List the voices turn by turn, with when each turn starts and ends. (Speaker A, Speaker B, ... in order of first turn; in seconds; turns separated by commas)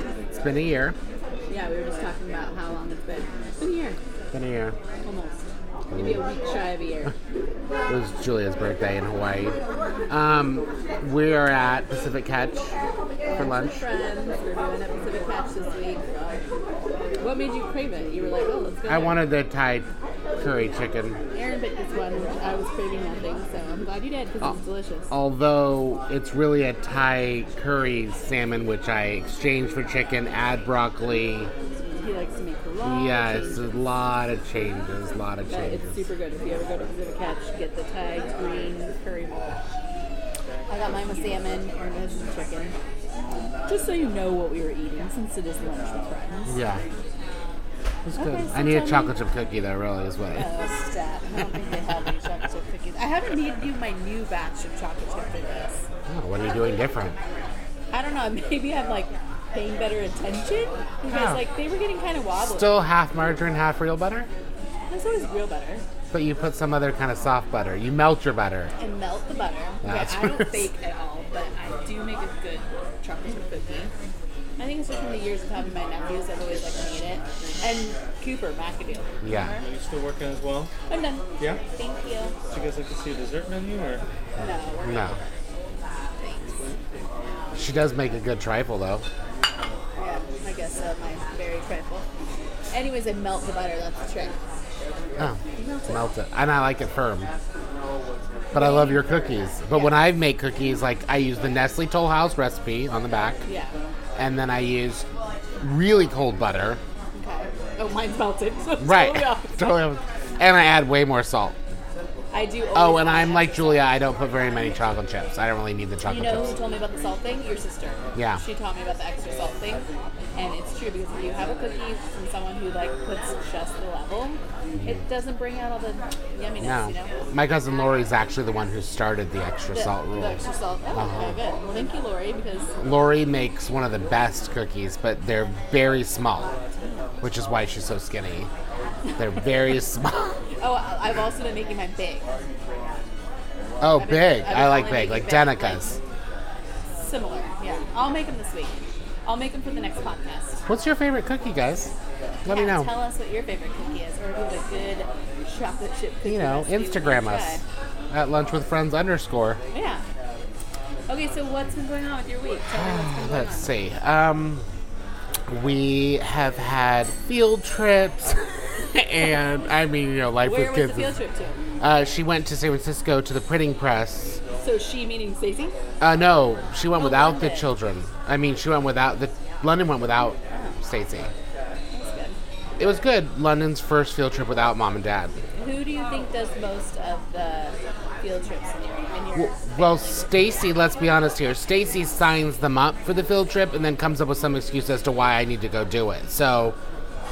Speaker A: 0.3-0.9, Speaker B: 1.5-4.0, Speaker A: 4.3-4.8, Speaker B: 5.0-7.1, Speaker A: 5.9-6.2, Speaker A: 7.9-9.6, Speaker A: 10.1-12.7, Speaker B: 13.2-16.4, Speaker A: 13.4-13.8, Speaker B: 17.2-19.2, Speaker A: 18.9-21.2, Speaker B: 21.3-25.1, Speaker A: 25.1-31.5, Speaker B: 31.7-33.7, Speaker A: 32.8-36.0, Speaker B: 35.5-39.6, Speaker B: 40.7-42.7, Speaker B: 43.7-46.6, Speaker A: 46.5-46.8, Speaker A: 48.0-50.5, Speaker B: 48.1-49.1, Speaker B: 50.3-55.8, Speaker A: 56.1-57.1, Speaker B: 57.9-62.8, Speaker A: 61.1-61.4, Speaker A: 62.4-64.3, Speaker B: 64.9-65.8, Speaker A: 66.1-68.7, Speaker B: 68.8-73.9, Speaker A: 69.8-70.6, Speaker B: 74.6-79.6, Speaker A: 79.2-79.6, Speaker C: 79.6-80.7, Speaker B: 80.9-82.3, Speaker C: 82.5-84.0, Speaker B: 84.4-85.3, Speaker A: 84.8-85.2, Speaker B: 86.2-86.6, Speaker A: 87.5-89.0, Speaker B: 90.0-92.0, Speaker B: 92.7-94.4, Speaker A: 95.2-97.3, Speaker B: 95.5-96.1, Speaker B: 98.5-100.0, Speaker A: 98.5-103.4, Speaker B: 103.4-103.7, Speaker A: 104.2-105.0, Speaker A: 105.6-106.8, Speaker B: 107.1-109.7, Speaker A: 108.8-111.5, Speaker B: 112.3-113.9, Speaker A: 112.7-116.5, Speaker B: 116.0-127.1, Speaker A: 118.2-118.4, Speaker A: 124.8-125.0, Speaker A: 126.6-130.4, Speaker B: 129.7-132.7, Speaker A: 130.9-131.4, Speaker A: 132.8-136.5, Speaker B: 136.8-137.1, Speaker A: 137.2-138.5, Speaker B: 139.1-139.5, Speaker A: 139.2-140.4, Speaker B: 140.6-142.2, Speaker A: 143.8-146.0, Speaker B: 144.0-146.0, Speaker B: 147.0-150.6, Speaker A: 150.7-151.9, Speaker A: 152.4-152.9, Speaker B: 152.5-157.6, Speaker A: 156.2-157.6, Speaker A: 158.1-159.6, Speaker B: 159.7-160.0, Speaker B: 161.1-163.7, Speaker A: 162.8-164.6, Speaker A: 165.5-171.2, Speaker B: 170.4-171.6, Speaker A: 171.8-174.4, Speaker B: 174.6-175.8, Speaker A: 176.0-181.3, Speaker B: 176.9-177.7, Speaker B: 180.5-180.8, Speaker B: 181.9-182.4, Speaker A: 182.8-185.3, Speaker B: 185.6-190.3, Speaker A: 189.3-196.8